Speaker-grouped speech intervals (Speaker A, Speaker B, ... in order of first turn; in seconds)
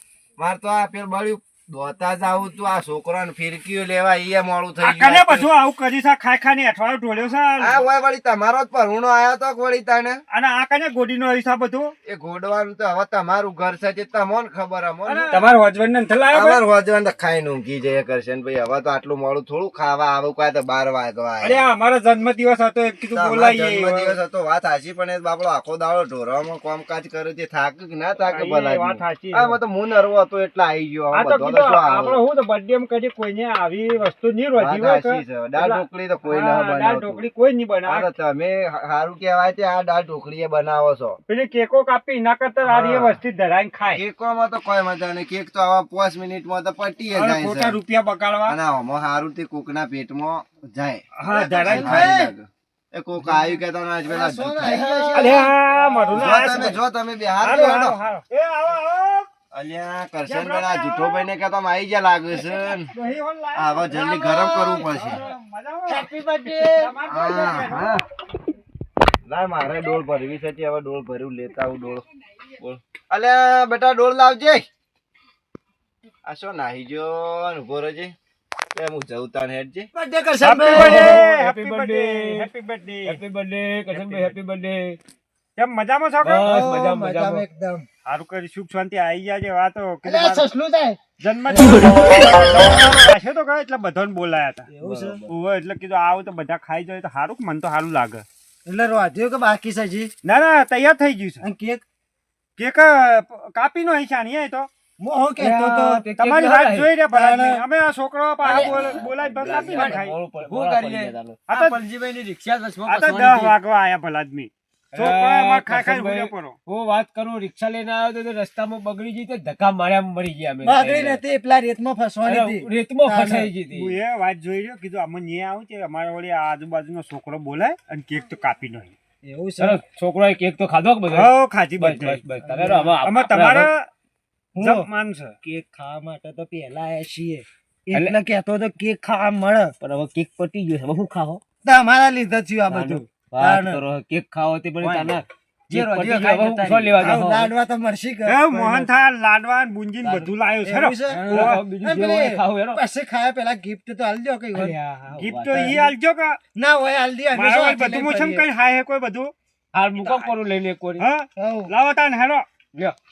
Speaker A: 0.4-5.5, 7.6-10.2, 12.1-15.4, 16.3-21.6, 23.1-32.2, 34.5-37.2, 37.9-41.2, 42.6-43.2, 43.9-47.8, 48.5-54.9, 56.1-58.0, 59.5-62.9, 63.5-65.2, 67.0-68.0, 69.2-72.0, 72.6-74.7, 76.2-78.1, 78.7-79.9
Speaker B: 4.8-7.9, 10.3-11.9, 15.1-16.6, 21.4-24.1, 28.3-29.6, 31.1-38.1, 41.3-44.0, 47.1-48.6, 51.2-52.1, 55.1-56.8, 57.4-59.3, 60.2-61.3, 62.9-68.0, 80.4-83.2, 83.9-84.3, 85.6-86.5, 88.0-90.5, 91.2-94.7, 95.3-98.2, 100.2-101.4, 102.6-104.7, 106.2-110.2, 111.5-111.8, 112.8-116.5, 123.7-128.9, 131.1-132.2, 133.0-133.8, 134.6-135.3, 144.8-145.2, 147.0-147.5, 148.3-151.6, 155.2-156.4, 157.3-159.3, 159.9-160.3, 161.0-162.4
Speaker C: 51.3-52.3, 54.0-55.5, 63.9-65.2, 65.9-66.9, 79.9-81.2, 86.4-87.9, 90.0-92.9, 94.7-95.2, 98.7-100.1, 101.4-101.8, 105.0-106.0, 107.1-107.6, 120.6-123.5, 129.2-129.8, 132.4-133.0, 134.6-134.9, 135.4-139.7, 141.6-143.8, 147.0-148.9, 150.6-154.8, 156.6-158.4, 161.4-161.7
Speaker D: 54.7-55.1, 108.4-109.0, 109.5-113.5, 145.7-147.1
Speaker E: 80.7-82.5, 83.0-85.0, 86.2-87.4, 94.8-95.4, 105.4-106.9, 108.4-111.4, 114.9-121.2, 122.2-124.0, 129.6-133.7, 139.8-141.4, 142.7-147.5, 151.1-152.8, 154.5-155.9, 159.7-161.1